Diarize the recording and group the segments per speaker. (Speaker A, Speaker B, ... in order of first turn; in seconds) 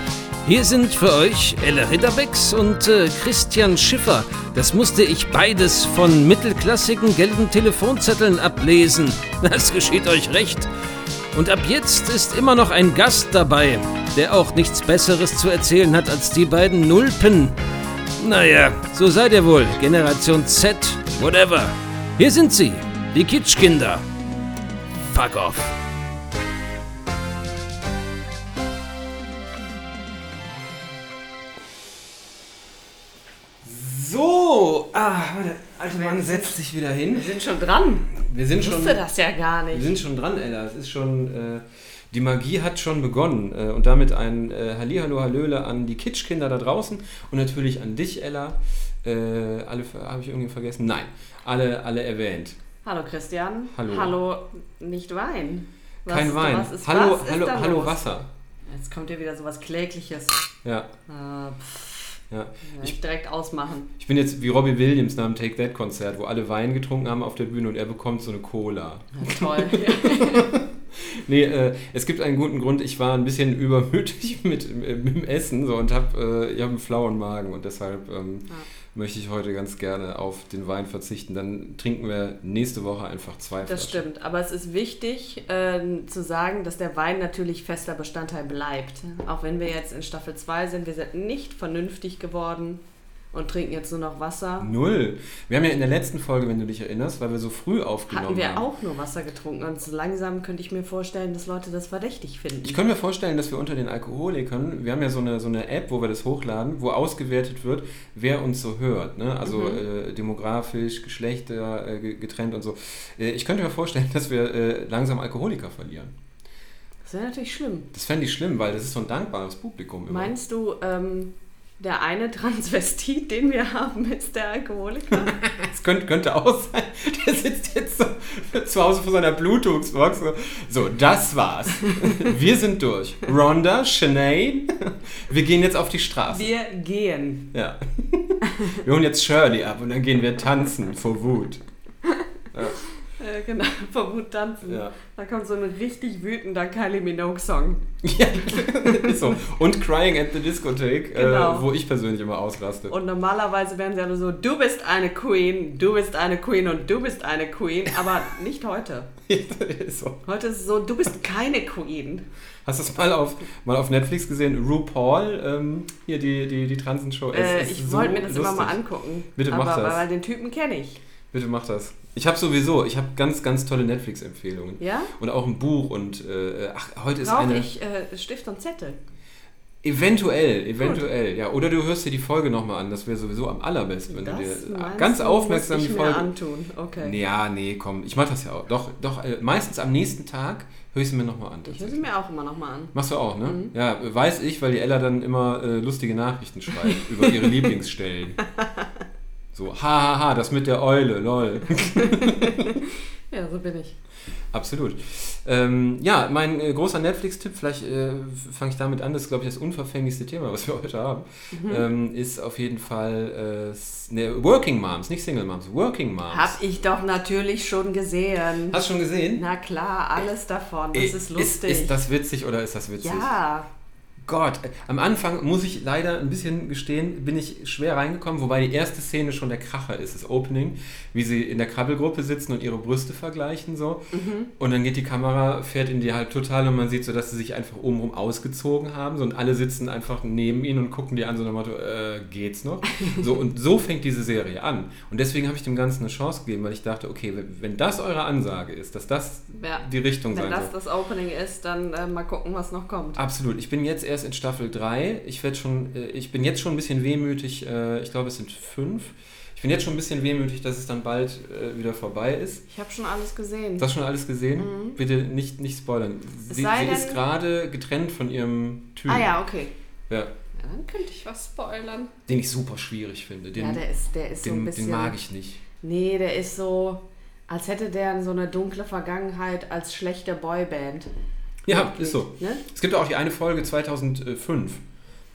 Speaker A: 0.4-10.7, 11.3-17.6, 18.2-24.1, 25.1-25.8
Speaker B: 33.6-37.3, 38.1-39.0, 39.7-52.6, 53.7-54.2, 56.1-58.3, 60.6-60.9, 62.3-63.0, 64.0-84.0, 94.6-98.7, 102.6-116.1, 117.9-120.3, 125.3-136.5, 137.5-141.6, 142.5-142.8, 144.6-144.9, 148.0-152.9, 159.3-160.2, 162.7-168.8, 169.3-170.0, 171.3-177.7, 179.8-186.3, 187.0-192.1, 192.9-198.4, 199.5-202.8, 204.5-216.6, 218.7-219.4, 220.9-223.4, 224.2-250.7, 253.2-262.6, 263.8-269.3, 272.3-273.8, 274.4-275.6, 281.6-284.8
Speaker C: 35.9-36.5, 37.1-40.0, 52.8-58.0, 58.7-60.5, 61.1-63.9, 69.1-70.5, 83.6-92.8, 93.3-94.7, 98.1-102.8, 109.4-109.8, 117.0-117.9, 120.1-125.4, 136.3-137.5, 138.4-138.8, 143.2-147.8, 148.6-149.4, 151.1-151.7, 152.9-159.1, 160.2-162.3, 167.3-171.0, 174.8-175.1, 177.2-179.0, 180.8-181.0, 184.1-187.2, 191.7-192.9, 193.4-193.7, 196.8-197.3, 198.6-198.8, 202.0-203.9, 211.5-211.8, 216.3-218.8, 219.3-221.9, 223.0-223.7, 234.1-234.5, 249.6-253.2, 262.7-263.9, 264.6-265.0, 266.5-267.2, 269.1-269.7, 270.6-272.1, 273.6-275.1, 275.8-281.1, 281.7-282.6